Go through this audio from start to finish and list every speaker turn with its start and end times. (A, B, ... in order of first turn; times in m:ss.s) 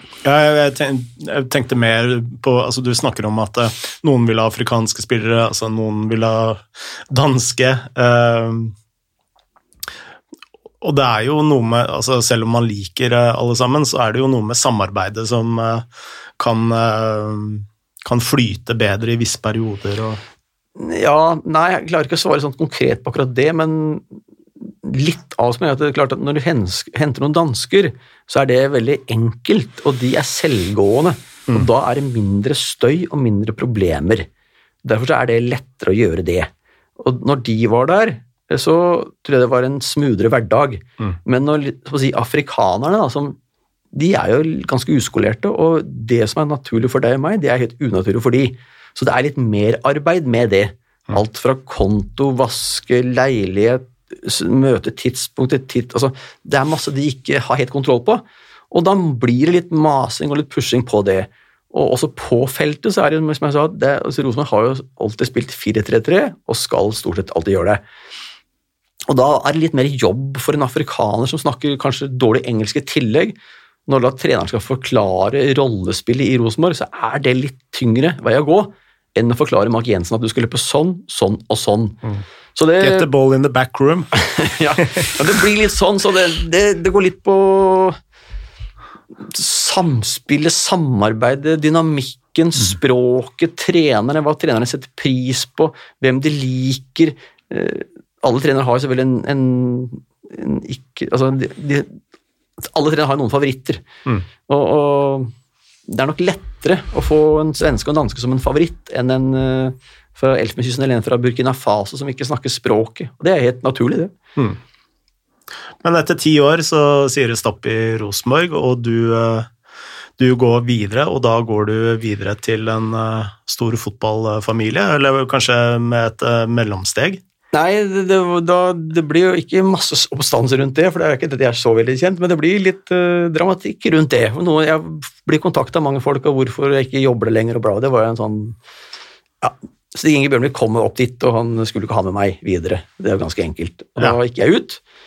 0:00.2-0:08.7 A
0:10.8-0:15.9 A
0:16.4-0:20.2 A
0:20.8-0:24.2 B
0:24.8-0:34.3 B
0:34.8-0:43.4 B
0:43.9-1:07.8 B
1:09.1-1:22.0 B
1:22.6-1:23.1 B
1:22.8-1:25.2 A
1:24.2-1:28.0 B
1:29.2-1:42.0 B
1:42.7-1:43.9 B
1:44.5-1:45.3 B
1:45.9-1:54.1 B
1:55.8-1:59.5 A
2:00.2-2:07.2 A
2:07.5-2:18.6 B
2:19.4-2:24.8 B